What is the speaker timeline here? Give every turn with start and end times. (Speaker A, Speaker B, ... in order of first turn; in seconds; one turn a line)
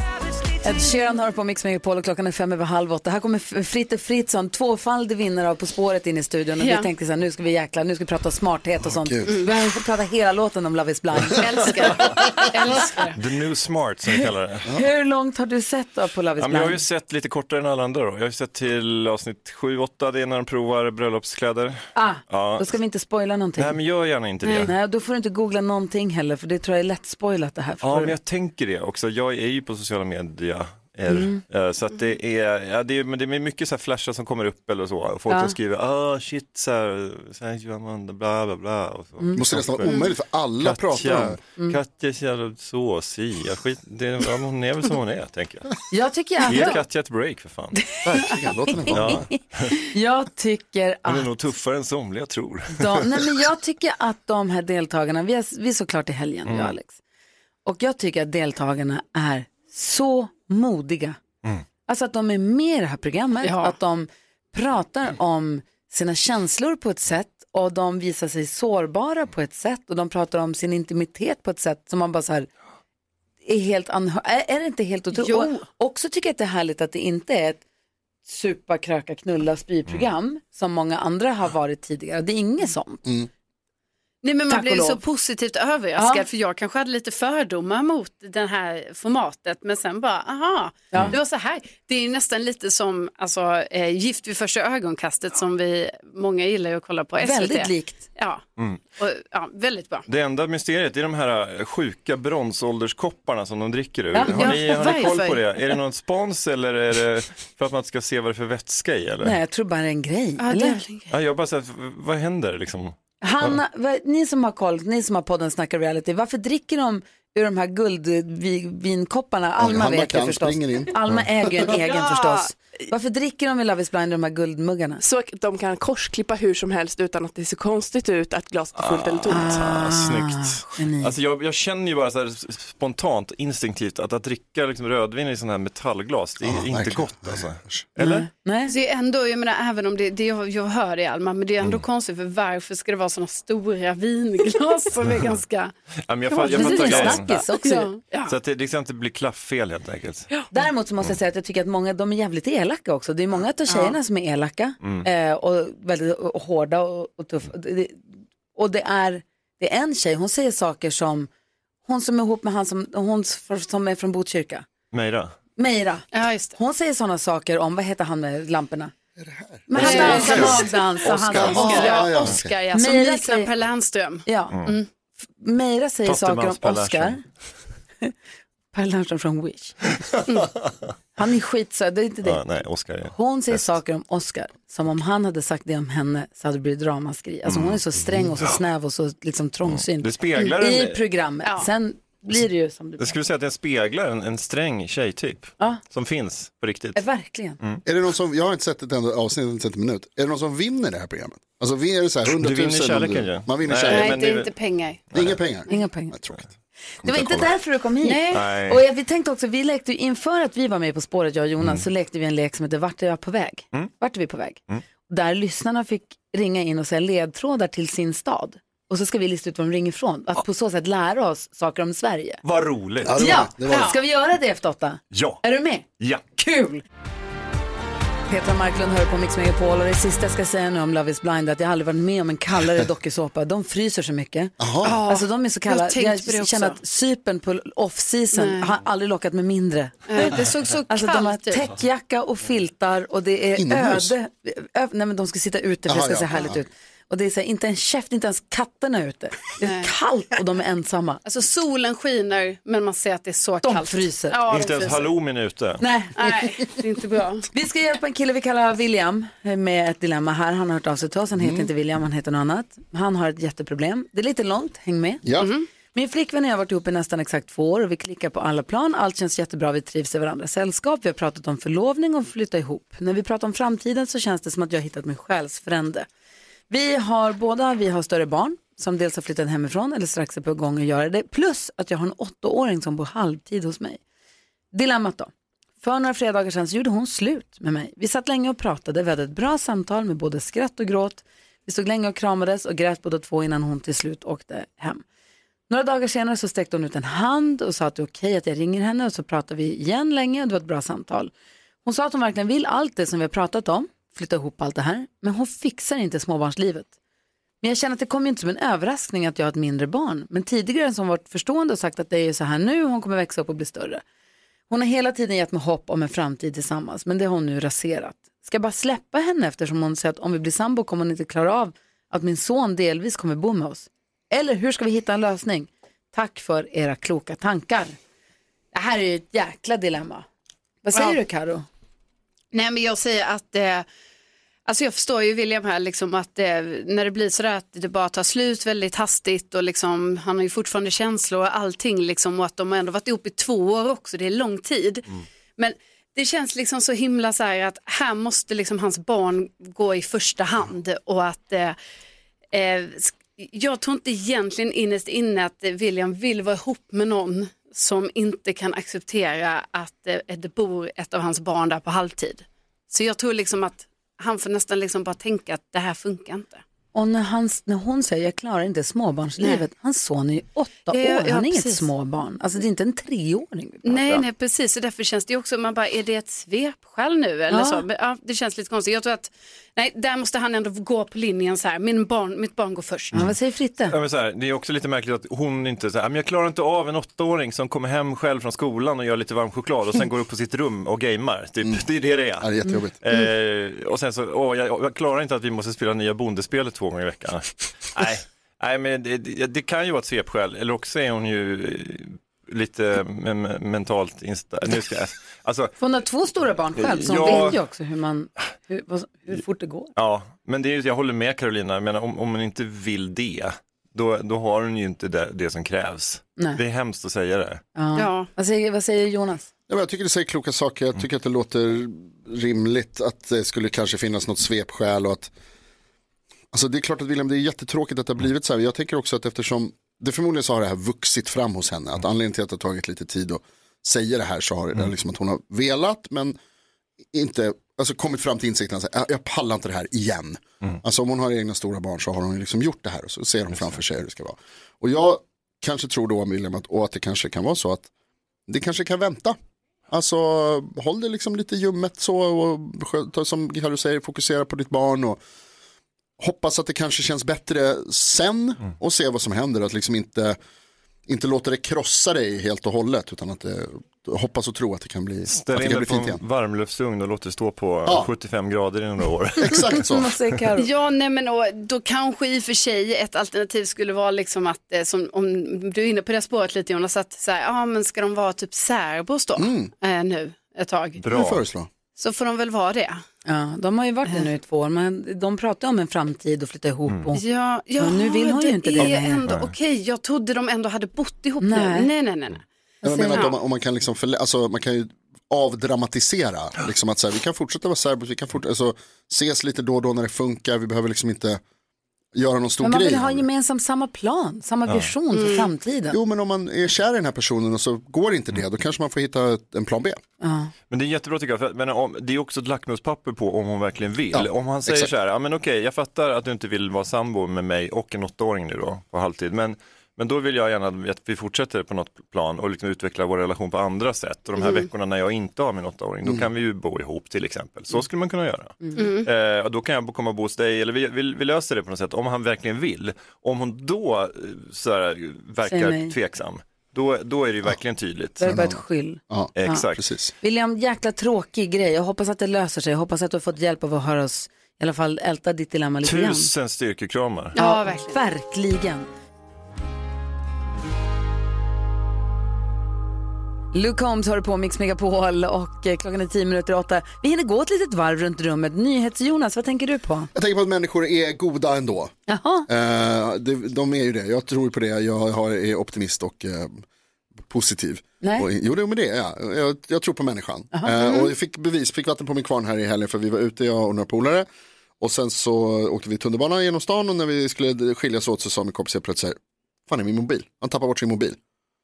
Speaker A: 0.6-12.1
Speaker B: 6.6-6.9
Speaker C: 8.9-9.4
Speaker B: 11.3-13.2
Speaker D: 13.1-14.7
Speaker A: 14.7-16.8
Speaker D: 16.4-22.7
Speaker A: 22.0-23.8
Speaker D: 23.6-24.7
Speaker B: 24.4-24.7
Speaker A: 24.6-28.2
Speaker D: 27.8-40.0
Speaker A: 31.1-31.4
Speaker A: 35.3-35.6
Speaker A: 39.2-39.5
Speaker C: 39.4-41.4
Speaker D: 40.6-45.8
Speaker A: 45.9-46.8
Speaker D: 46.5-47.8
Speaker B: 46.5-46.8
Speaker A: 48.0-51.4
Speaker C: 48.0-49.2
Speaker D: 48.9-49.8
Speaker D: 51.1-53.5
Speaker A: 52.8-57.0
Speaker D: 56.5-56.8
Speaker A: 57.6-61.2
Speaker A: 61.9-72.5
Speaker B: 63.4-63.8
Speaker A: 73.4-77.6
Speaker B: 75.1-75.6
Speaker A: 78.3-83.0
Speaker B: 84.2-98.4
Speaker A: 84.5-85.0
Speaker A: 86.0-86.3
Speaker A: 90.9-91.2
Speaker A: 97.2-98.0
Speaker B: 99.0-100.1
Speaker D: 100.1-109.4
Speaker A: 104.1-104.6
Speaker B: 104.2-105.6
Speaker A: 109.2-110.8
Speaker B: 110.4-111.1
Speaker D: 111.1-113.6
Speaker A: 113.2-125.0
Speaker C: 119.6-121.7
Speaker E: 125.0-129.6
Speaker D: 128.8-138.3
Speaker A: 129.3-131.1
Speaker C: 136.4-137.9
Speaker A: 138.0-138.7
Speaker B: 138.7-145.7
Speaker D: 146.1-147.4
Speaker B: 146.3-148.3
Speaker A: 146.4-147.9
Speaker D: 148.3-150.3
Speaker A: 150.5-161.3
Speaker B: 153.7-154.0
Speaker D: 154.8-155.1
Speaker A: 161.9-164.7
Speaker D: 164.9-165.3
Speaker A: 165.6-168.9
Speaker B: 166.1-166.6
Speaker C: 169.2-172.5
Speaker A: 169.7-172.1
Speaker B: 169.7-174.9
Speaker A: 172.7-173.5
Speaker A: 174.3-174.6
Speaker D: 174.5-174.8
Speaker A: 175.4-177.2
Speaker D: 176.1-177.2
Speaker A: 178.7-179.8
Speaker A: 181.2-182.4
Speaker D: 182.2-183.8
Speaker A: 183.1-193.1
Speaker D: 187.5-187.8
Speaker D: 189.7-191.0
Speaker D: 193.0-197.0
Speaker A: 196.9-197.6
Speaker C: 197.9-204.2
Speaker D: 202.3-204.5
Speaker B: 203.9-205.0
Speaker D: 205.1-205.4
Speaker C: 205.1-206.5
Speaker A: 205.7-206.2
Speaker C: 207.0-207.5
Speaker A: 207.0-222.4
Speaker B: 208.0-208.5
Speaker D: 208.3-208.8
Speaker D: 211.6-211.9
Speaker D: 222.4-223.3
Speaker C: 223.0-223.9
Speaker A: 223.1-226.8
Speaker D: 225.1-225.4
Speaker D: 226.0-226.3
Speaker A: 228.3-251.2
Speaker C: 234.6-235.0
Speaker B: 234.8-236.8
Speaker B: 238.3-238.8
Speaker B: 240.1-241.7
Speaker C: 243.6-244.2
Speaker C: 245.9-246.7
Speaker B: 249.6-249.9
Speaker B: 251.2-255.2
Speaker A: 253.6-254.4
Speaker D: 254.5-255.8
Speaker A: 255.8-256.2
Speaker B: 256.2-257.5
Speaker A: 257.5-265.3
Speaker C: 261.4-261.7
Speaker C: 265.2-265.5
Speaker B: 265.4-265.7
Speaker A: 265.9-276.1
Speaker A: 276.7-284.0
Speaker A: 284.7-295.0
Speaker A: 295.7-301.3
Speaker A: 301.9-306.9
Speaker A: 307.6-314.0
Speaker A: 314.7-328.0
Speaker A: 328.7-330.3
Speaker A: 330.8-331.7
Speaker B: 332.5-333.9
Speaker B: 334.7-351.8
Speaker B: 352.5-366.6
Speaker A: 366.9-374.2
Speaker B: 370.9-371.9
Speaker B: 373.9-383.2
Speaker A: 377.5-377.8
Speaker A: 383.1-384.0
Speaker D: 383.9-405.7
Speaker C: 392.4-393.0
Speaker A: 405.8-409.9
Speaker D: 406.8-407.6
Speaker D: 410.0-417.6
Speaker A: 417.8-419.5
Speaker B: 417.9-418.3
Speaker C: 419.7-425.3
Speaker C: 426.5-436.4
Speaker C: 437.1-447.9
Speaker D: 443.5-443.8
Speaker C: 448.5-449.4
Speaker C: 449.9-455.2
Speaker C: 456.2-460.4
Speaker C: 461.1-466.2
Speaker D: 465.3-469.7
Speaker C: 469.4-470.1
Speaker A: 469.7-470.7
Speaker B: 470.6-481.0
Speaker C: 479.4-479.7
Speaker D: 481.0-481.4
Speaker C: 481.1-481.7
Speaker B: 482.0-483.0
Speaker A: 483.3-487.2
Speaker B: 487.1-492.4
Speaker A: 487.8-489.2
Speaker D: 488.8-489.5
Speaker A: 491.4-491.9
Speaker A: 492.8-493.2
Speaker C: 492.8-501.4
Speaker B: 493.1-493.4
Speaker C: 502.1-503.3
Speaker A: 502.6-506.0
Speaker D: 504.7-504.9
Speaker B: 505.1-505.5
Speaker C: 505.9-510.0
Speaker A: 510.2-510.5
Speaker D: 510.7-538.2
Speaker C: 514.1-514.9
Speaker B: 524.4-524.7
Speaker B: 528.8-529.1
Speaker A: 535.5-535.9
Speaker A: 538.2-539.7
Speaker C: 538.2-540.1
Speaker D: 539.4-539.8
Speaker A: 540.2-546.3
Speaker D: 545.8-547.3
Speaker B: 547.3-548.0
Speaker A: 547.4-548.9
Speaker A: 553.5-560.1
Speaker C: 560.1-561.9
Speaker A: 562.1-562.5
Speaker C: 562.5-566.6
Speaker C: 567.2-574.3
Speaker A: 568.0-568.3
Speaker C: 574.8-581.2